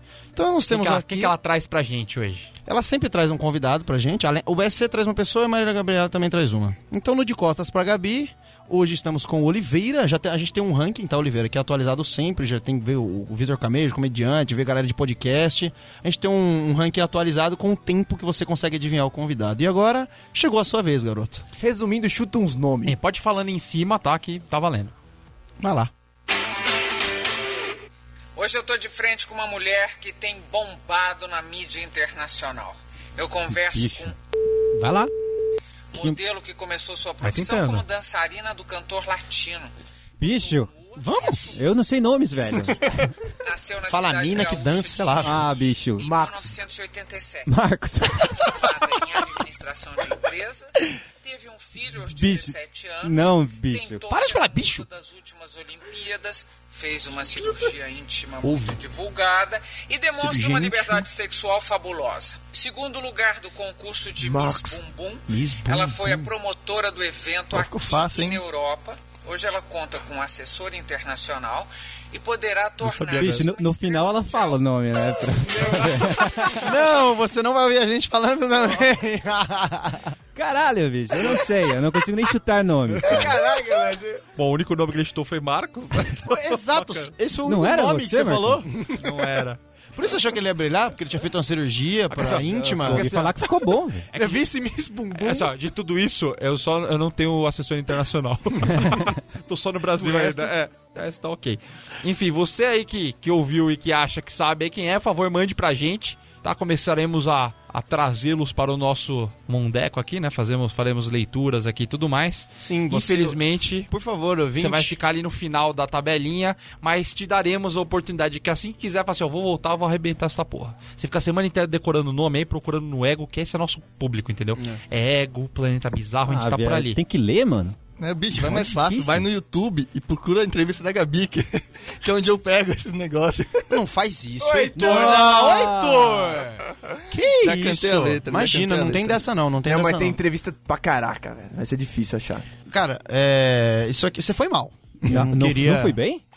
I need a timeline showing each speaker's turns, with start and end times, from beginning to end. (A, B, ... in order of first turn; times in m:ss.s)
0:00.4-0:01.3 A
0:00.7-0:02.5 B
0:02.6-0:21.4 A
0:21.6-0:22.9 C
0:22.8-0:24.9 B
0:25.6-0:25.9 A
0:28.4-0:34.1 D
0:33.7-0:34.1 E
0:34.7-0:35.1 A
0:35.9-0:39.7 D
0:37.2-0:37.8 B
0:40.2-0:40.7 E
0:40.2-0:42.6 D
0:41.0-0:41.6 A
0:41.5-0:43.1 E
0:42.5-0:42.8 A
0:43.4-0:47.5 D
0:43.9-0:45.4 A
0:45.2-0:46.5 E
0:47.4-0:48.7 E
0:48.3-1:14.6 D
0:52.0-0:54.0 E
0:54.1-0:54.9 A
0:58.4-0:58.8 A
1:00.2-1:01.0 A
1:04.2-1:04.8 C
1:05.3-1:06.3 A
1:07.5-1:08.4 F
1:12.8-1:13.5 B
1:13.1-1:16.7 E
1:16.6-1:20.1 A
1:20.3-1:23.4 E
1:23.0-1:24.2 C
1:24.4-1:27.1 B
1:26.2-1:29.1 A
1:27.4-1:28.7 E
1:28.9-1:29.6 B
1:29.9-1:33.1 A
1:32.1-1:33.4 B
1:32.8-1:34.0 E
1:34.1-1:34.4 B
1:34.1-1:35.5 A
1:35.1-1:53.9 B
1:39.9-1:40.5 A
1:52.6-1:55.0 A
1:54.6-2:07.0 B
2:06.3-2:07.8 E
2:08.0-2:13.8 F
2:08.4-2:09.3 E
2:13.7-2:20.2 A
2:14.4-2:16.4 C
2:14.7-2:16.4 E
2:17.3-2:19.3 F
2:19.6-2:22.4 C
2:22.7-2:26.0 A
2:25.1-2:26.2 E